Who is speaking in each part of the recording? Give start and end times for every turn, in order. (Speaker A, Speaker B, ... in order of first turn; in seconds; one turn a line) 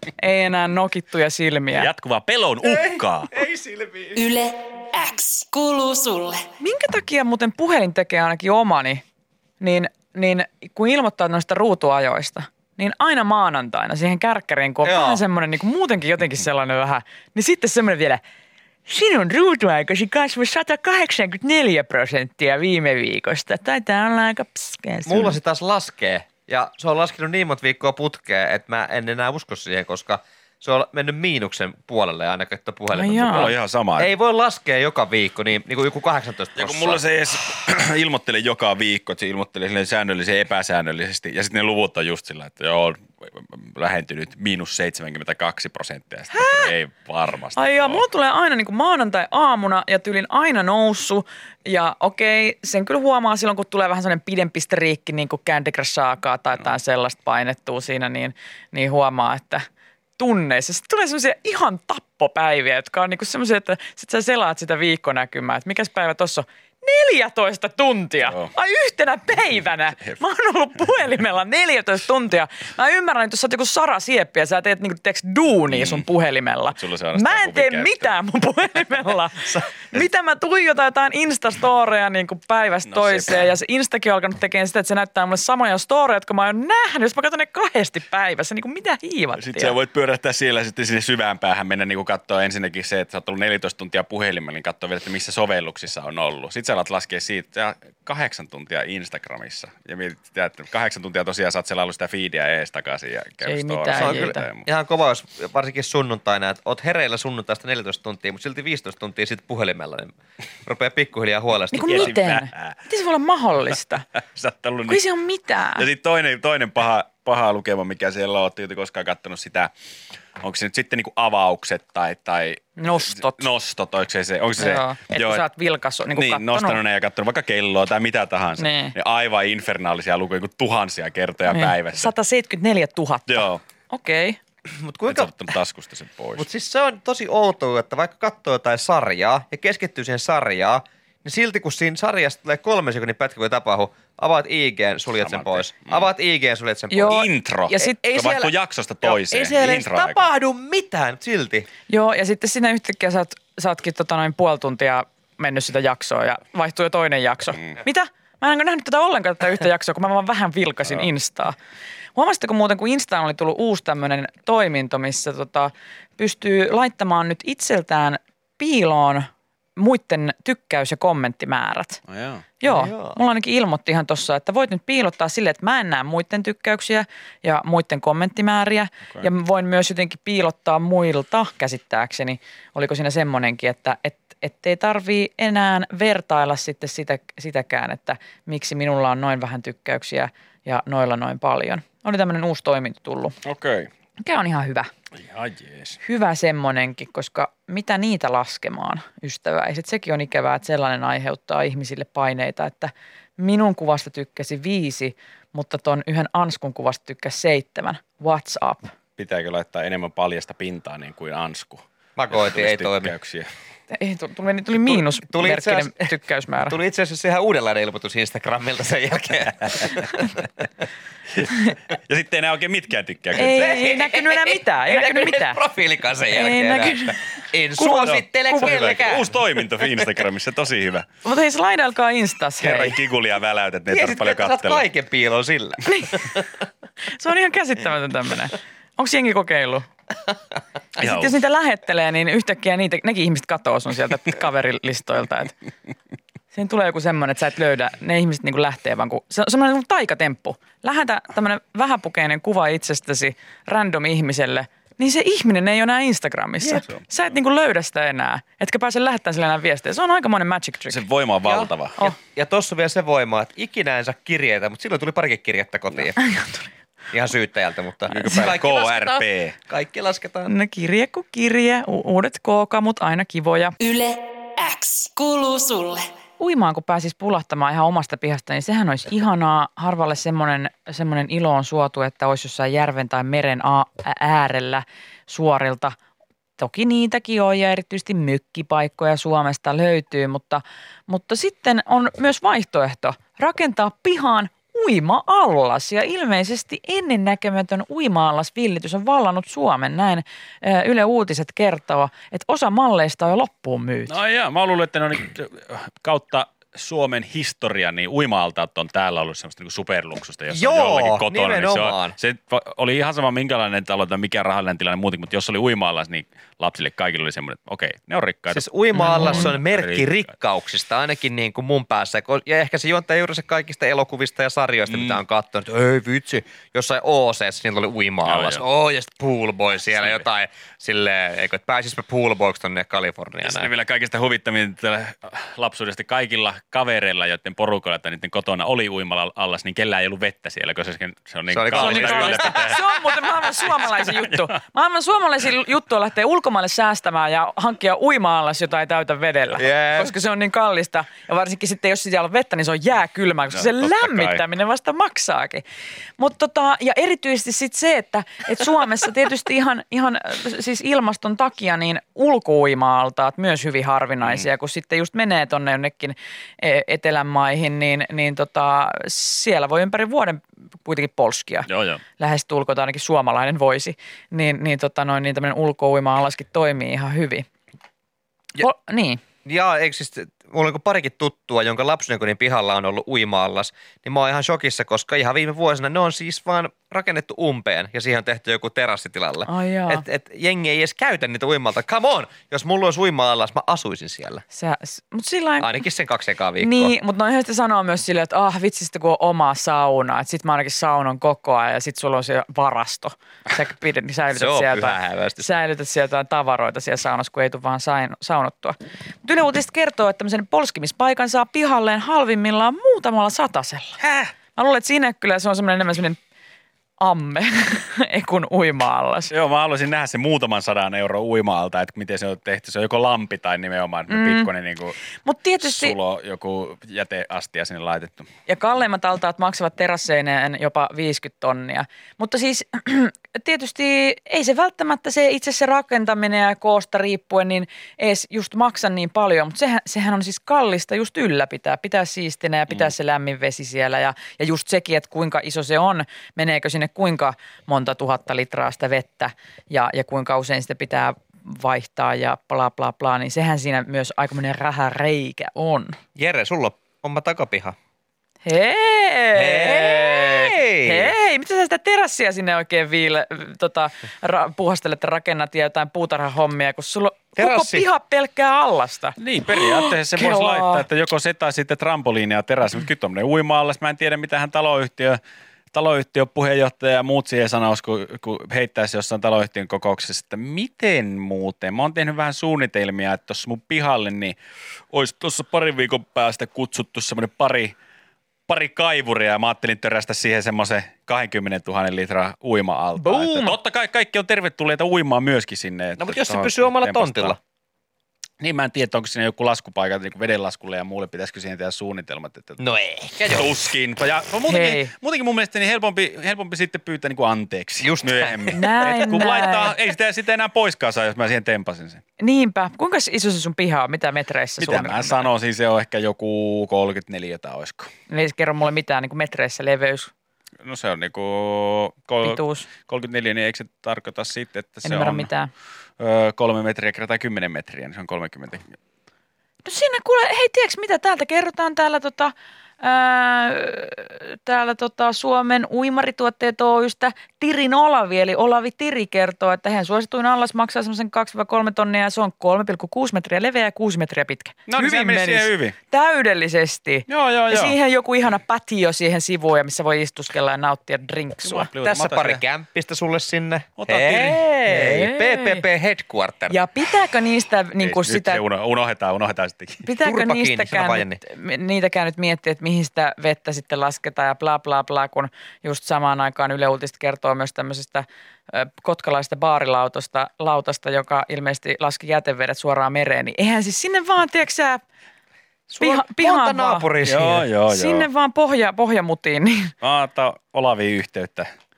Speaker A: 0.2-1.9
Speaker B: 1.7-3.3
Speaker C: 2.6-4.2
Speaker D: 4.2-6.4
Speaker A: 6.6-9.0
Speaker A: 9.6-18.2
Speaker C: 14.8-15.2
Speaker A: 18.9-25.4
Speaker C: 25.1-37.0
Speaker A: 32.9-33.5
Speaker B: 33.3-34.1
Speaker B: 36.6-48.0
Speaker A: 46.3-46.7
Speaker A: 47.6-59.7
Speaker A: 60.2-89.8
Speaker B: 68.2-68.5
Speaker B: 75.7-76.0
Speaker B: 76.7-78.1
Speaker B: 82.9-83.5
Speaker B: 89.4-104.7
Speaker A: 103.4-104.5
Speaker C: 103.9-112.2
Speaker A: 111.7-114.1
Speaker B: 111.8-112.8
Speaker B: 114.3-115.0
Speaker A: 114.9-115.9
Speaker B: 115.8-119.7
Speaker B: 120.4-125.4
Speaker A: 122.8-123.5
Speaker A: 124.6-126.8
Speaker B: 126.2-132.1
Speaker A: 128.6-128.9
Speaker A: 131.5-134.4
Speaker B: 133.3-133.6
Speaker C: 134.8-135.3
Speaker B: 135.1-136.5
Speaker C: 136.4-147.3
Speaker B: 145.2-146.1
Speaker A: 146.9-148.0
Speaker B: 147.1-150.2
Speaker C: 147.8-151.7
Speaker A: 151.9-161.6
Speaker A: 162.2-172.0
Speaker B: 172.1-172.4
Speaker A: 172.6-193.4
Speaker C: 172.6-173.2
Speaker B: 193.4-193.9
Speaker A: 194.2-194.9
Speaker B: 195.2-196.0
Speaker A: 196.0-208.9
Speaker B: 209.2-213.5
Speaker C: 212.2-213.1
Speaker A: 213.9-216.8
Speaker C: 214.8-220.5
Speaker B: 221.3-223.8
Speaker A: 223.4-225.6
Speaker C: 223.5-229.4
Speaker A: 226.3-227.2
Speaker A: 227.8-228.8
Speaker B: 228.6-231.1
Speaker A: 231.2-233.0
Speaker B: 232.6-234.8
Speaker C: 233.9-236.5
Speaker A: 235.9-236.3
Speaker A: 237.1-239.9
Speaker A: 241.0-245.5
Speaker B: 241.0-241.3
Speaker A: 246.5-261.0
Speaker B: 256.6-257.0
Speaker B: 260.9-262.0
Speaker C: 261.4-266.2
Speaker A: 266.2-266.7
Speaker C: 267.1-270.5
Speaker B: 268.1-269.6
Speaker A: 270.5-273.8
Speaker D: 273.8-276.1
Speaker A: 276.4-286.0
Speaker A: 286.6-304.2
Speaker B: 304.1-320.3
Speaker C: 310.5-312.2
Speaker C: 318.5-333.7
Speaker A: 318.9-319.5
Speaker B: 324.9-325.2
Speaker B: 328.2-328.6
Speaker B: 329.9-330.2
Speaker B: 333.4-342.9
Speaker C: 341.5-342.8
Speaker A: 341.8-355.6
Speaker B: 343.6-344.4
Speaker C: 349.6-350.1
Speaker B: 353.5-354.4
Speaker A: 356.2-377.5
Speaker B: 371.7-372.0
Speaker A: 378.6-379.2
Speaker C: 379.4-394.4
Speaker A: 389.5-390.0
Speaker A: 394.5-395.7
Speaker C: 395.6-396.9
Speaker A: 396.6-414.0
Speaker C: 404.3-405.5
Speaker B: 414.0-414.3
Speaker A: 414.6-416.2
Speaker A: 417.0-419.3
Speaker B: 419.3-425.0
Speaker A: 424.1-424.5
Speaker A: 425.2-426.0
Speaker B: 425.6-428.3
Speaker A: 428.5-456.0
Speaker C: 456.2-457.8
Speaker A: 458.4-470.9
Speaker C: 459.4-461.1
Speaker C: 467.4-467.9
Speaker B: 469.2-475.2
Speaker B: 475.7-484.4
Speaker B: 484.9-487.8
Speaker B: 488.5-497.4
Speaker A: 493.0-493.6
Speaker C: 496.0-497.4
Speaker B: 498.4-502.6
Speaker C: 502.6-503.6
Speaker B: 503.2-512.0
Speaker A: 504.5-504.9
Speaker C: 507.8-508.6
Speaker A: 508.5-509.8
Speaker A: 512.2-515.3
Speaker B: 514.6-517.9
Speaker A: 518.1-520.1
Speaker B: 520.6-525.3
Speaker A: 522.2-522.7
Speaker A: 524.8-525.5
Speaker B: 526.0-528.8
Speaker A: 529.6-551.7
Speaker B: 544.7-545.8
Speaker B: 547.1-547.8
Speaker B: 551.4-552.4
Speaker C: 551.8-556.6
Speaker B: 553.8-554.4
Speaker A: 554.6-555.6
Speaker A: 556.5-558.4
Speaker B: 557.8-559.9
Speaker A: 559.8-574.8
Speaker C: 560.0-561.2
Speaker C: 575.7-577.5
Speaker A: 575.8-576.9
Speaker B: 577.0-578.1
Speaker A: 577.7-579.7
Speaker B: 579.8-581.5